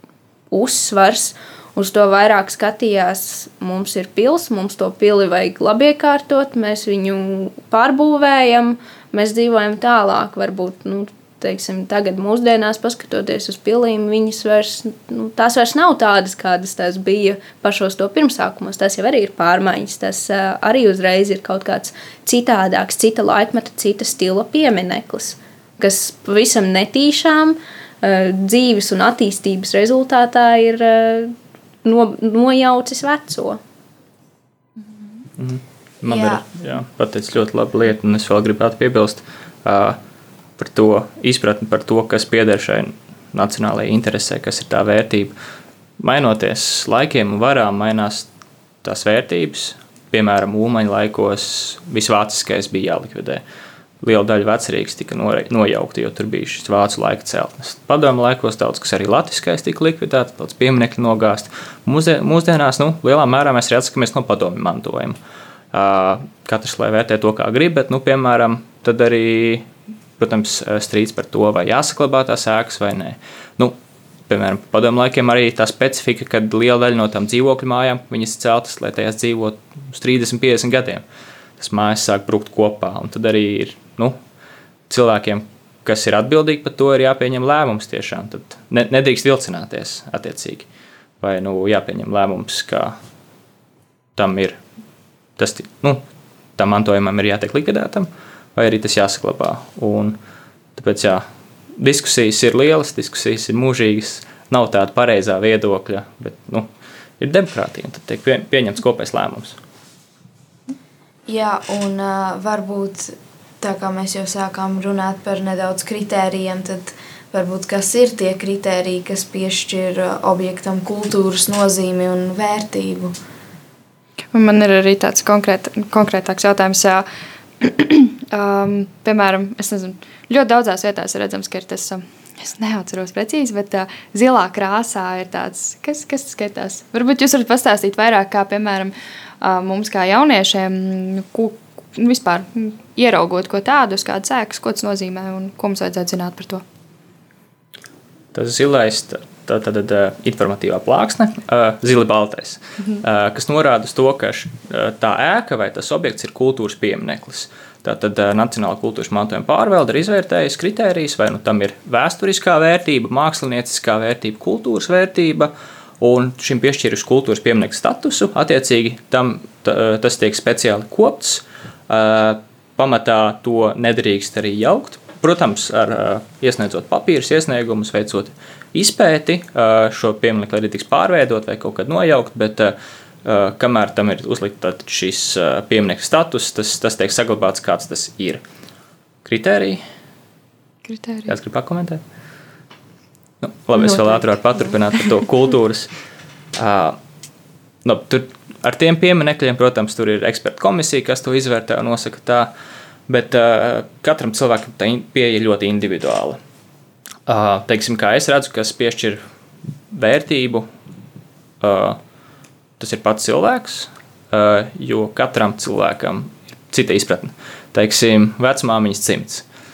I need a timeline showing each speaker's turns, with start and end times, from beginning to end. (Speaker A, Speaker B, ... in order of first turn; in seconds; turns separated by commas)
Speaker A: 0.5-33.6, Speaker B: 35.4-40.0, Speaker C: 36.0-36.5, Speaker B: 40.6-45.3, Speaker B: 46.0-48.3, Speaker B: 48.8-53.4, Speaker B: 54.0-65.2, Speaker B: 65.7-69.7, Speaker B: 70.2-73.8, Speaker B: 74.3-81.0, Speaker B: 81.6-84.2, Speaker B: 84.9-90.7, Speaker B: 91.2-93.0, Speaker B: 94.2-94.6, Speaker B: 95.4-96.0, Speaker B: 96.6-100.2, Speaker B: 100.8-101.3, Speaker B: 101.8-106.7, Speaker B: 107.2-109.6, Speaker C: 111.3-123.2, Speaker D: 124.3-127.0, Speaker D: 127.6-146.6, Speaker B: 148.3-188.4, Speaker B: 189.2-189.8, Speaker D: 190.8-191.3, Speaker B: 191.3-192.0, Speaker B: 193.4-195.9, Speaker B: 196.6-197.0, Speaker B: 197.8-202.5, Speaker B: 203.1-206.4, Speaker B: 207.3-209.2, Speaker B: 209.9-210.7, Speaker B: 211.6-212.0, Speaker B: 212.8-219.4